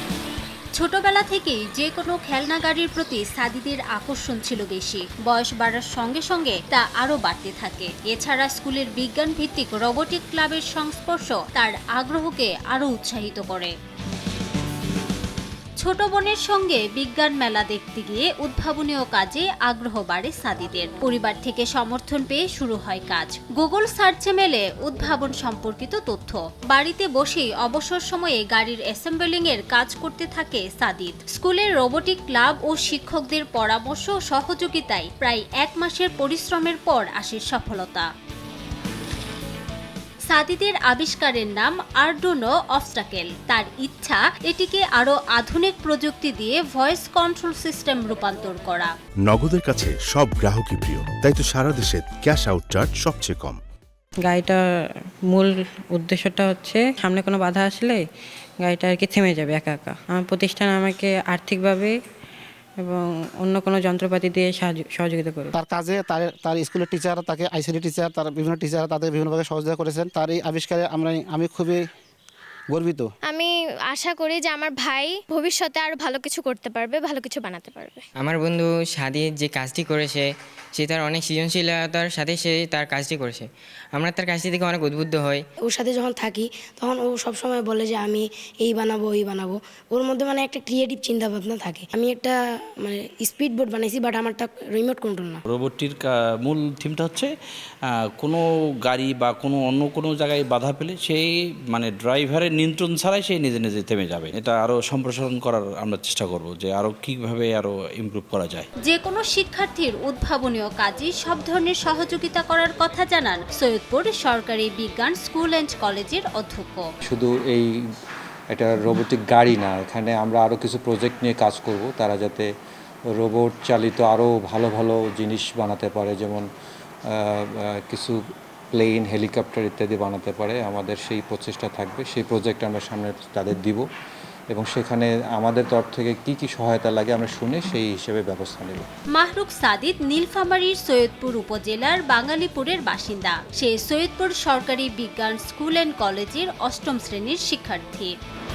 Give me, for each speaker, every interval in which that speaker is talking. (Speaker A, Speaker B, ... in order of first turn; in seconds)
Speaker A: 0.7-13.7, 15.8-38.1, 40.3-48.9, 108.8-116.8, 139.1-148.1
Speaker B: 49.3-53.6
Speaker C: 54.3-54.6, 55.3-58.0, 58.6-61.9, 62.8-65.5
Speaker D: 65.5-71.8, 72.7-73.1
Speaker E: 73.2-78.0
Speaker F: 78.2-85.4
Speaker G: 85.7-95.4
Speaker H: 95.5-97.3, 98.1-108.7
Speaker I: 117.0-117.7, 118.5-122.5, 123.2-126.5, 127.1-128.2, 128.7-133.8, 134.5-138.8